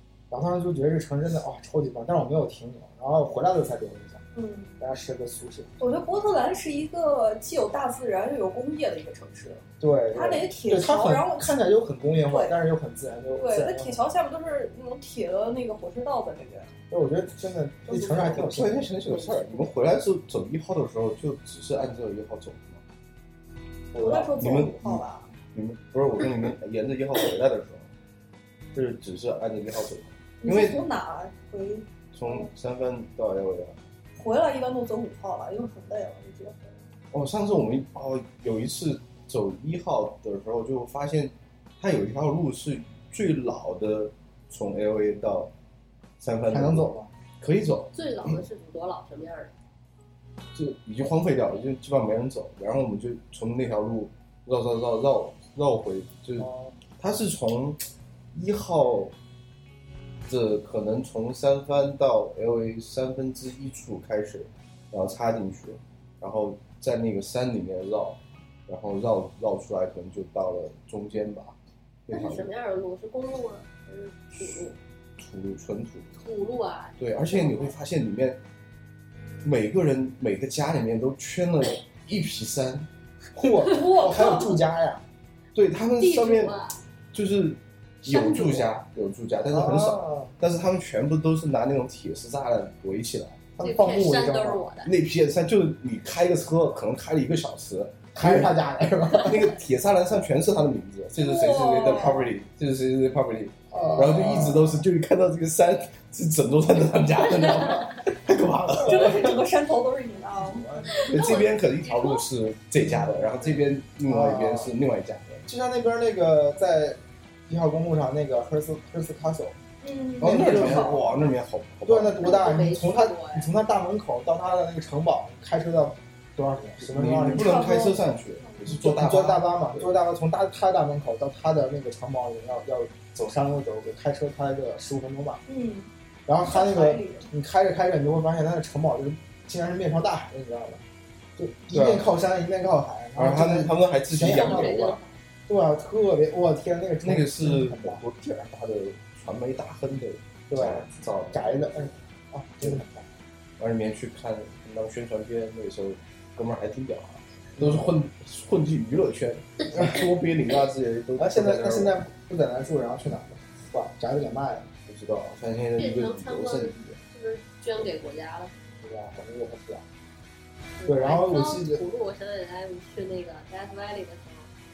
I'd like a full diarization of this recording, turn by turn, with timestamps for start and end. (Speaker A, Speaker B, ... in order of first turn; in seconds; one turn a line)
Speaker A: 0.3-4.2
Speaker B: 4.3-4.7
Speaker A: 4.8-5.7
Speaker B: 5.8-11.4
Speaker A: 9.8-14.0
Speaker B: 12.3-12.6
Speaker B: 13.4-16.7
Speaker A: 16.9-18.9
Speaker B: 17.9-18.4
Speaker C: 18.2-22.8
Speaker A: 23.9-24.4
Speaker B: 23.9-25.3
Speaker C: 24.3-25.0
Speaker C: 25.5-27.9
Speaker C: 28.7-30.8
Speaker B: 30.4-32.5
Speaker C: 32.1-33.8
Speaker B: 34.2-36.8
Speaker C: 37.1-45.5
Speaker C: 46.2-46.9
Speaker A: 46.5-47.1
Speaker C: 47.4-48.4
Speaker D: 47.9-49.5
Speaker C: 50.5-57.8
Speaker A: 56.4-56.8
Speaker C: 58.3-59.1
Speaker C: 60.3-71.6
Speaker C: 72.1-72.5
Speaker D: 72.1-74.8
Speaker C: 75.2-76.1
Speaker D: 76.2-77.8
Speaker C: 77.0-78.4
Speaker C: 79.4-82.9
Speaker A: 83.3-85.0
Speaker B: 83.6-84.6
Speaker C: 85.5-86.6
Speaker D: 86.0-86.8
Speaker C: 87.1-93.5
Speaker D: 88.1-88.7
Speaker A: 89.5-90.3
Speaker A: 93.6-94.7
Speaker D: 93.6-94.9
Speaker C: 94.8-98.5
Speaker A: 98.1-99.6
Speaker C: 99.1-109.4
Speaker B: 101.2-102.3
Speaker A: 103.7-104.8
Speaker A: 108.7-109.3
Speaker B: 108.8-110.7
Speaker A: 110.5-111.1
Speaker D: 110.9-112.2
Speaker C: 111.0-115.5
Speaker A: 112.8-114.7
Speaker A: 115.5-119.6
Speaker B: 119.8-121.2
Speaker A: 120.2-121.1
Speaker C: 120.2-122.5
Speaker A: 121.9-127.7
Speaker D: 122.2-123.5
Speaker C: 126.8-129.9
Speaker B: 127.4-128.8
Speaker A: 128.7-135.4
Speaker B: 135.5-135.9
Speaker A: 136.3-140.8
Speaker B: 136.4-137.3
Speaker A: 141.4-148.0
Speaker C: 141.7-142.1
Speaker C: 143.2-145.0
Speaker D: 144.3-145.1
Speaker C: 147.0-151.8
Speaker A: 150.5-153.1
Speaker C: 153.6-161.9
Speaker A: 157.6-157.9
Speaker A: 161.2-164.7
Speaker C: 164.9-167.0
Speaker D: 165.8-168.5
Speaker A: 168.8-169.8
Speaker D: 170.8-174.5
Speaker A: 170.9-171.8